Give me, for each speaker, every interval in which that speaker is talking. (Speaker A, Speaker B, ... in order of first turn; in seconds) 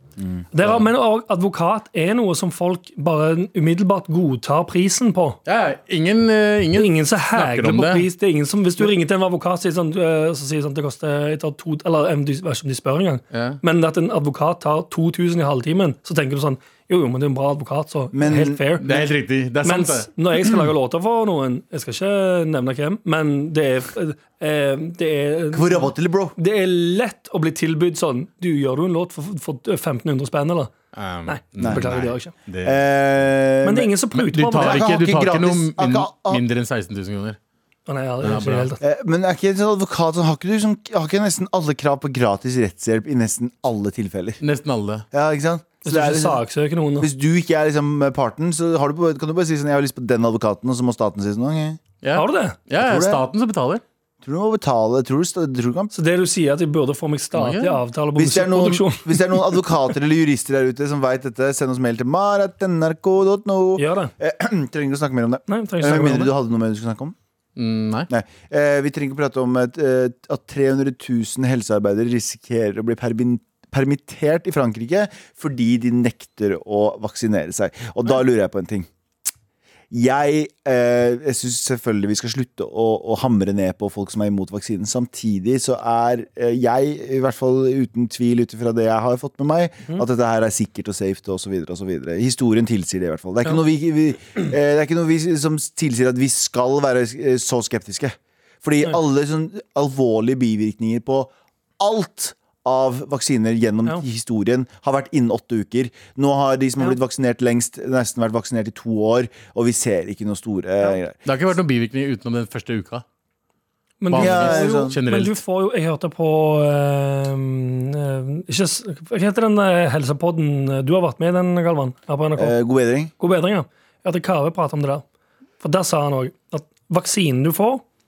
Speaker A: 0.2-0.5, 18.1-18.6, 25.5-26.3, 31.6-31.9, 32.6-33.9, 34.5-36.4, 38.8-44.4, 45.1-46.4, 47.0-51.8, 52.8-53.2, 54.2-55.9, 58.1-67.1, 68.1-78.9, 79.9-111.1, 114.2-115.0, 122.3-123.1
Speaker B: 0.5-5.4, 6.7-19.1, 19.6-30.7, 31.2-32.3, 33.6-34.8, 37.9-38.8, 45.8-47.1, 52.1-52.6, 55.9-59.9, 63.8-64.1, 65.5-66.3, 114.0-122.5, 123.2-125.0, 125.6-127.8
Speaker C: 5.5-8.1, 13.3-13.6, 18.8-20.1, 30.9-32.8, 34.1-37.4, 38.2-38.7, 44.4-45.0, 52.0-53.8, 57.3-57.8, 67.6-68.1, 111.2-113.0, 114.1-115.4